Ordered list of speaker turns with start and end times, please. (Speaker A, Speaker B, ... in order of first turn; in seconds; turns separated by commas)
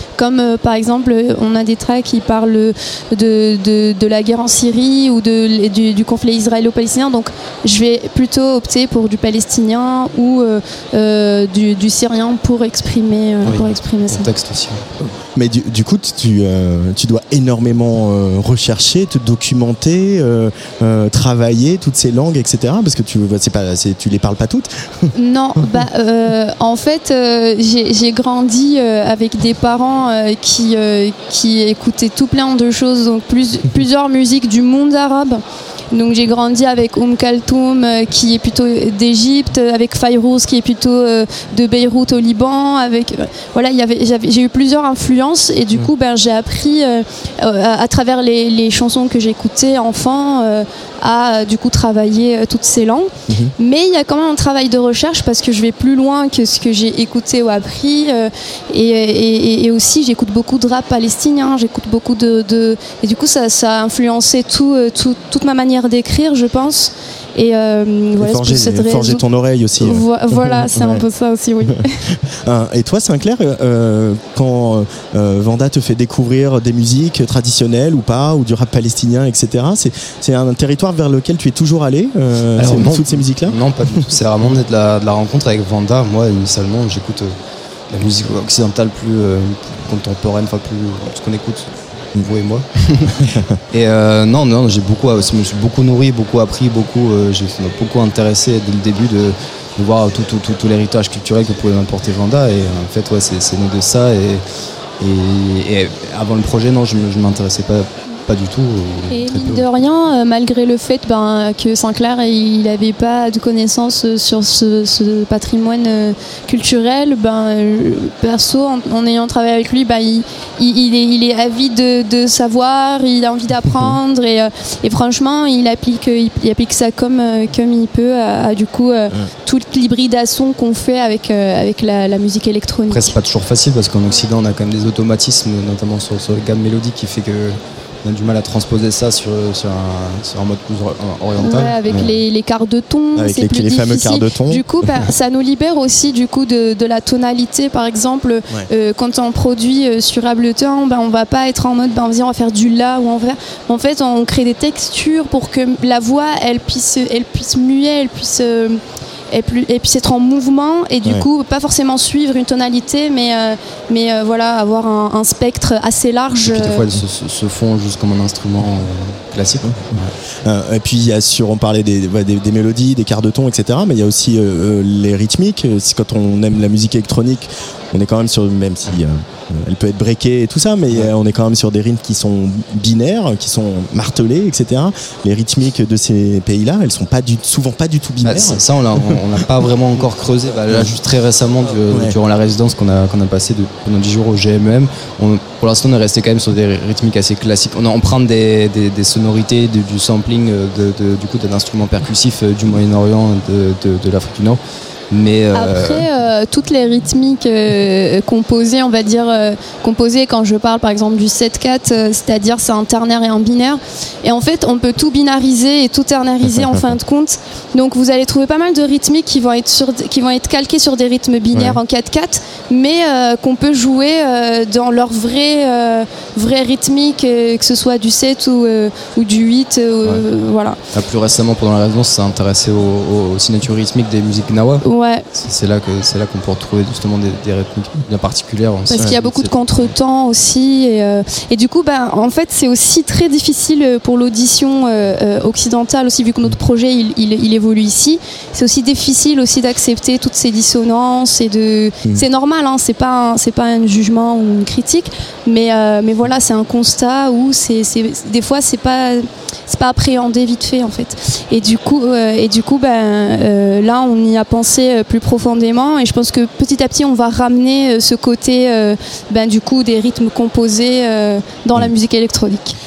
Speaker A: 0.2-14.3, Speaker B: 13.4-14.8, Speaker C: 15.3-25.1, Speaker A: 25.1-69.2, Speaker C: 68.2-71.0, Speaker A: 69.8-72.0, Speaker C: 72.5-83.6, Speaker B: 82.6-87.4, Speaker B: 87.9-104.4, Speaker B: 105.0-109.7, Speaker A: 109.1-133.1, Speaker B: 132.9-142.2, Speaker A: 141.4-158.8, Speaker C: 143.2-145.1, Speaker A: 159.3-166.9, Speaker B: 166.3-170.1, Speaker C: 169.6-189.0, Speaker B: 188.2-204.6, Speaker C: 191.9-192.1, Speaker B: 205.1-206.1, Speaker A: 205.5-230.8, Speaker C: 216.4-216.9, Speaker C: 221.5-221.8, Speaker B: 230.9-234.8, Speaker A: 234.8-235.3, Speaker B: 235.4-239.9, Speaker A: 238.9-272.7